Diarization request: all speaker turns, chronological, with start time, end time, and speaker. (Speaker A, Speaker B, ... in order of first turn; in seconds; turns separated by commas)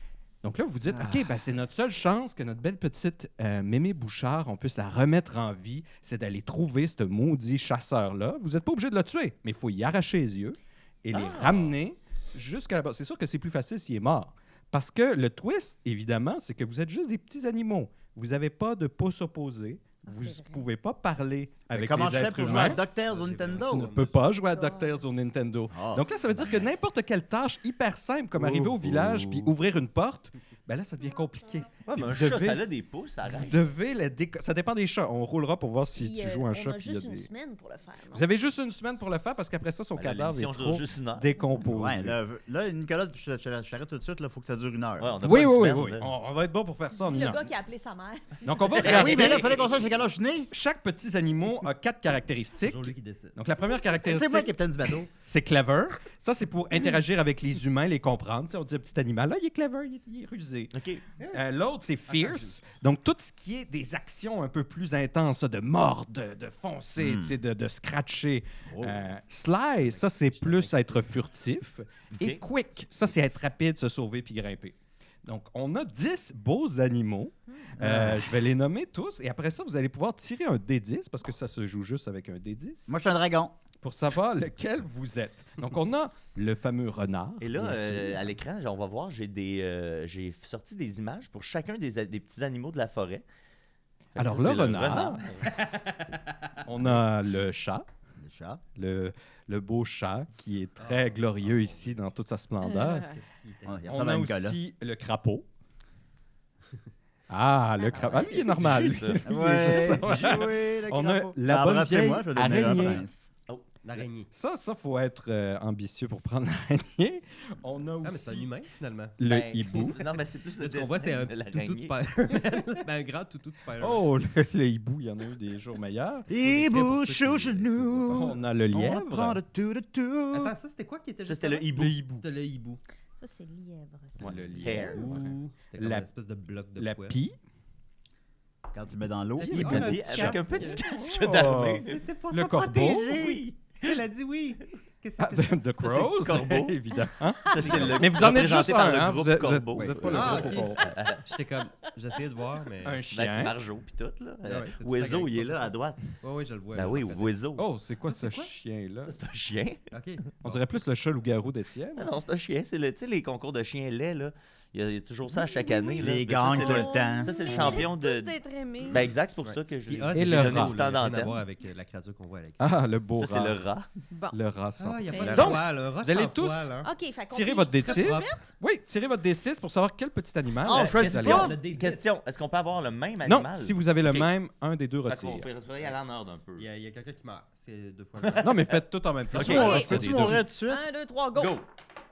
Speaker A: 0.4-22.8, Speaker B: 0.9-1.3, Speaker C: 11.1-11.8, Speaker D: 20.1-20.6, Speaker B: 21.7-23.9, Speaker E: 22.3-24.4, Speaker A: 23.6-32.7, Speaker D: 24.5-25.0, Speaker B: 25.7-26.7, Speaker B: 28.4-29.5, Speaker C: 31.9-33.7, Speaker A: 33.2-37.3, Speaker D: 36.0-38.3, Speaker A: 38.1-42.2, Speaker C: 40.0-41.3, Speaker B: 41.6-45.2, Speaker C: 45.0-46.1, Speaker A: 45.2-47.5, Speaker D: 46.9-48.9, Speaker A: 48.4-49.5, Speaker B: 48.8-50.5, Speaker C: 48.8-49.6, Speaker A: 50.5-54.5, Speaker E: 52.6-53.4, Speaker B: 54.0-55.1, Speaker A: 55.1-60.7, Speaker C: 60.7-61.0, Speaker E: 61.2-61.4, Speaker A: 61.3-82.9, Speaker E: 62.1-62.6, Speaker B: 67.0-67.3, Speaker B: 68.7-69.1, Speaker E: 69.8-71.0, Speaker C: 72.1-72.4, Speaker B: 77.8-78.3, Speaker B: 82.9-83.6, Speaker A: 83.8-88.2, Speaker C: 87.4-93.2, Speaker A: 94.2-95.2, Speaker C: 94.2-95.6, Speaker E: 95.4-96.6, Speaker A: 96.6-97.9, Speaker B: 98.2-98.6, Speaker A: 98.8-103.2, Speaker E: 100.8-102.0, Speaker D: 102.7-103.1, Speaker E: 102.8-103.8, Speaker B: 103.7-104.6, Speaker A: 103.9-105.5, Speaker A: 107.3-113.1, Speaker D: 107.8-108.5, Speaker C: 108.0-110.4, Speaker B: 109.2-113.3, Speaker C: 113.5-114.1, Speaker E: 113.8-114.3, Speaker A: 114.3-118.5, Speaker E: 118.0-119.2, Speaker A: 119.2-120.0, Speaker C: 119.2-122.0, Speaker E: 120.6-124.1, Speaker A: 123.8-126.3, Speaker B: 126.3-130.5, Speaker E: 126.4-128.4, Speaker A: 128.1-129.4, Speaker E: 130.3-132.8, Speaker C: 131.2-132.0, Speaker A: 131.8-132.2, Speaker D: 133.2-134.9, Speaker A: 134.2-136.1, Speaker E: 134.3-137.2, Speaker C: 134.6-135.3, Speaker A: 136.8-137.4, Speaker B: 138.7-140.3, Speaker A: 139.4-143.1, Speaker E: 139.4-140.8, Speaker C: 139.5-142.0, Speaker E: 141.5-145.6, Speaker C: 142.7-143.9, Speaker A: 145.2-150.9, Speaker C: 145.8-146.8, Speaker C: 147.4-151.3, Speaker E: 147.5-148.1, Speaker E: 150.0-153.0, Speaker A: 152.8-153.6, Speaker C: 153.1-156.0, Speaker E: 154.4-157.4, Speaker C: 156.7-157.7, Speaker A: 157.6-159.1, Speaker E: 158.0-158.5, Speaker C: 159.0-159.9, Speaker E: 159.9-160.4, Speaker A: 160.4-162.1, Speaker C: 161.9-171.4, Speaker D: 165.4-169.1, Speaker B: 165.8-167.9, Speaker E: 169.4-172.7, Speaker A: 170.1-170.8, Speaker A: 172.6-173.6, Speaker C: 173.2-173.9, Speaker D: 174.1-174.4, Speaker A: 174.3-176.7, Speaker E: 174.8-176.9, Speaker D: 175.1-175.4, Speaker D: 176.8-178.5, Speaker A: 177.3-181.5, Speaker E: 177.8-178.4, Speaker B: 180.7-181.6, Speaker C: 180.7-184.3, Speaker E: 181.0-182.1, Speaker A: 183.2-185.5, Speaker C: 185.1-186.7, Speaker E: 186.6-188.6, Speaker C: 188.2-190.3, Speaker A: 188.4-190.4, Speaker B: 189.3-190.8, Speaker D: 189.4-189.9, Speaker D: 190.7-191.6, Speaker C: 191.3-191.7